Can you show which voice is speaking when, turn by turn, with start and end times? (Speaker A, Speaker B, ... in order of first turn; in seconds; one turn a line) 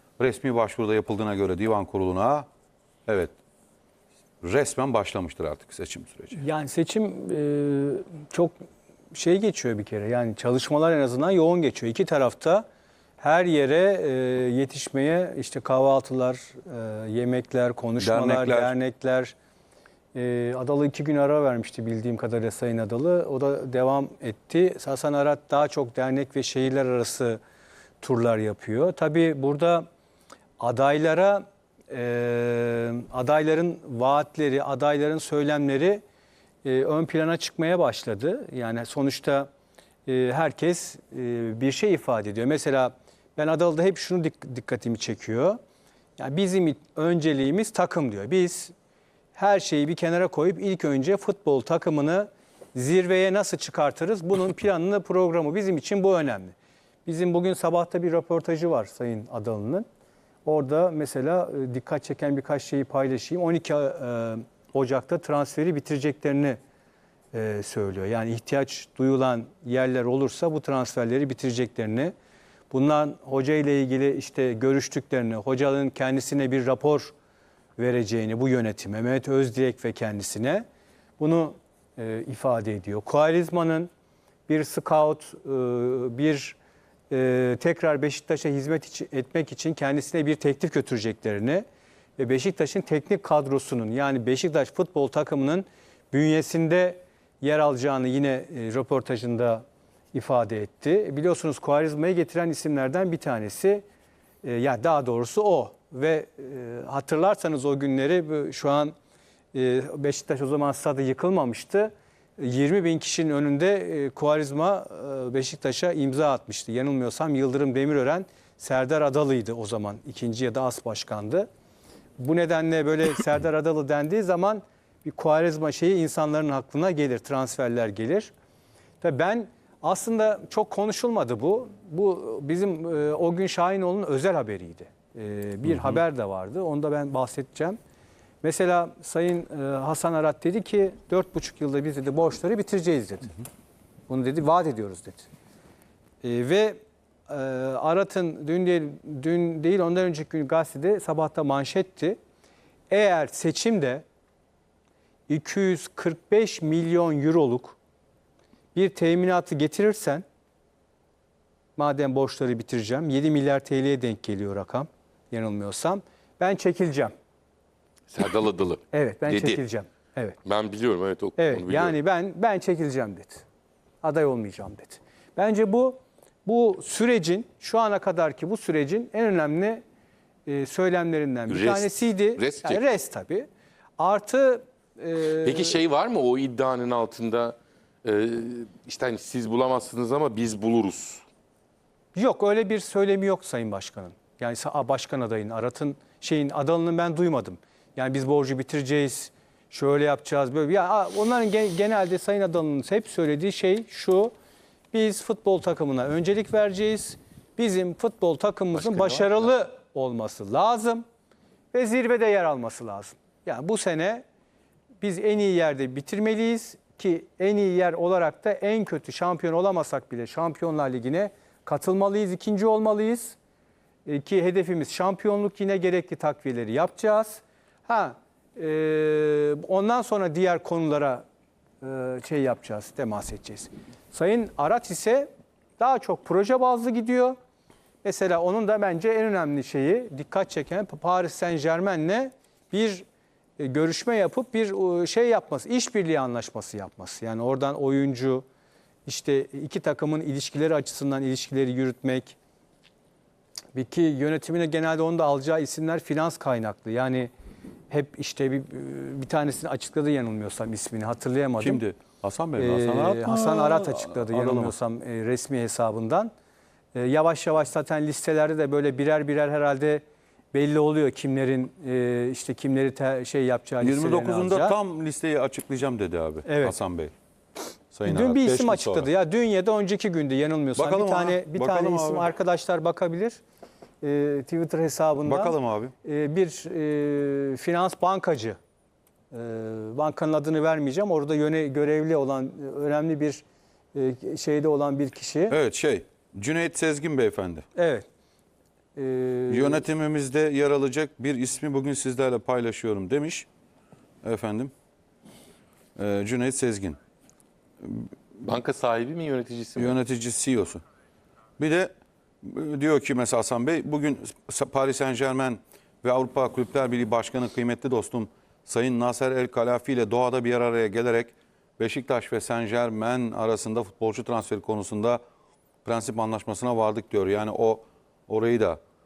Speaker A: 0.2-2.5
Speaker A: 3.1-3.3
Speaker A: 4.4-6.4
Speaker B: 6.3-8.6
Speaker B: 9.1-12.7
Speaker B: 13.2-19.3
Speaker A: 18.0-18.7
Speaker B: 20.1-27.4
Speaker B: 28.0-29.9
Speaker B: 30.6-36.0
Speaker B: 36.6-39.5
Speaker B: 40.1-45.6
Speaker B: 46.2-48.7
Speaker B: 49.4-56.5
Speaker B: 57.1-59.9
Speaker B: 60.5-66.6
Speaker B: 67.3-72.1
Speaker B: 72.7-77.1
Speaker B: 77.8-80.7
Speaker B: 81.2-83.9
Speaker B: 84.5-86.6
Speaker B: 87.1-91.7
Speaker B: 92.2-103.8
Speaker B: 104.4-109.0
Speaker B: 109.5-121.5
Speaker B: 122.2-128.3
Speaker B: 129.0-137.8
Speaker B: 138.4-143.3
Speaker B: 144.1-145.3
Speaker B: 146.2-152.2
Speaker B: 152.9-154.0
Speaker B: 155.3-157.8
Speaker B: 158.8-160.2
Speaker B: 161.8-167.1
Speaker C: 168.1-169.6
Speaker B: 168.9-170.4
Speaker C: 170.4-171.9
Speaker B: 171.4-173.4
Speaker B: 174.0-179.8
Speaker B: 180.5-185.8
Speaker C: 181.5-182.8
Speaker C: 185.3-191.2
Speaker B: 192.2-204.3
Speaker B: 204.9-211.1
Speaker B: 211.7-214.2
Speaker B: 215.0-223.4
Speaker B: 224.1-231.2
Speaker B: 231.8-237.4
Speaker B: 238.0-243.1
Speaker B: 243.6-248.4
Speaker B: 249.1-252.4
Speaker B: 253.7-257.3
Speaker B: 257.9-261.8
Speaker A: 261.6-264.7
Speaker B: 262.6-266.3
Speaker B: 266.9-274.8
Speaker A: 273.8-277.1
Speaker B: 276.5-276.8
Speaker A: 277.9-279.1
Speaker B: 278.1-283.4
Speaker A: 280.8-282.3
Speaker B: 284.0-288.6
Speaker A: 285.2-285.9
Speaker B: 289.3-293.4
Speaker B: 293.9-295.6
Speaker A: 295.5-297.6
Speaker B: 297.8-298.1
Speaker B: 299.0-299.9
Speaker A: 299.5-303.5
Speaker A: 304.2-304.7
Speaker A: 306.0-307.0
Speaker A: 307.8-308.1
Speaker C: 308.4-309.9
Speaker A: 309.8-310.8
Speaker A: 311.6-311.9
Speaker A: 312.4-325.2
Speaker A: 325.9-328.8